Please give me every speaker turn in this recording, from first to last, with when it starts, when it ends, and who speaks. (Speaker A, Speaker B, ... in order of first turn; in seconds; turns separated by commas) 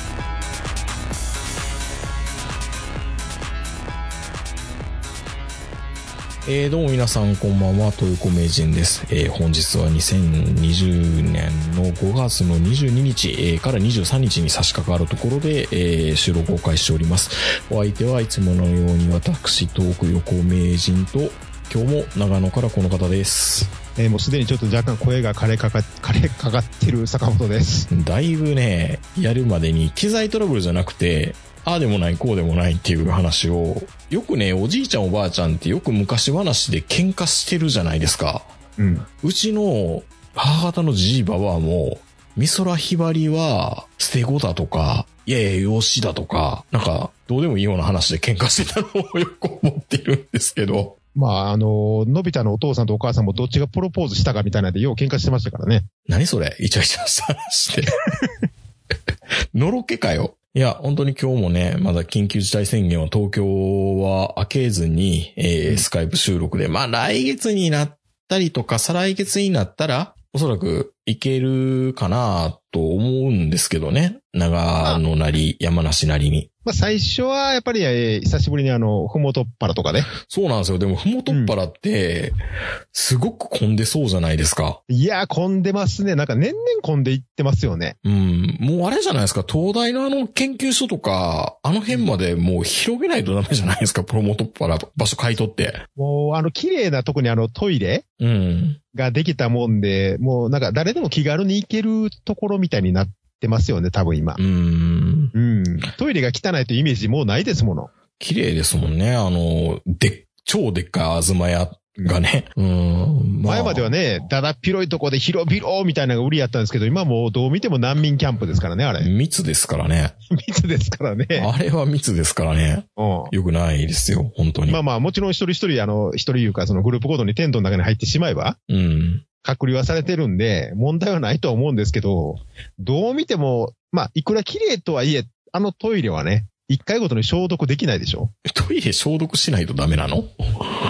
Speaker A: 6.4-23.7, Speaker B: 24.0-27.9, Speaker A: 27.9-38.5, Speaker B: 38.8-39.0, Speaker A: 39.2-50.9, Speaker B: 51.1-55.9, Speaker A: 56.1-57.9, Speaker A: 59.5-76.5, Speaker B: 76.6-80.1, Speaker A: 80.2-82.3, Speaker B: 81.3-81.5, Speaker A: 82.9-84.8, Speaker B: 84.9-88.0, Speaker A: 88.0-95.8, Speaker B: 96.0-98.0, Speaker A: 98.2-98.8, Speaker B: 98.9-104.4, Speaker A: 104.4-105.3, Speaker B: 105.3-107.9, Speaker A: 108.2-113.9, Speaker B: 113.4-119.1, Speaker A: 119.0-120.1, Speaker B: 120.3-121.5, Speaker A: 121.3-124.8, Speaker B: 123.0-123.3, Speaker B: 124.7-128.6, Speaker A: 128.7-129.2, Speaker B: 129.4-138.3, Speaker A: 138.4-140.8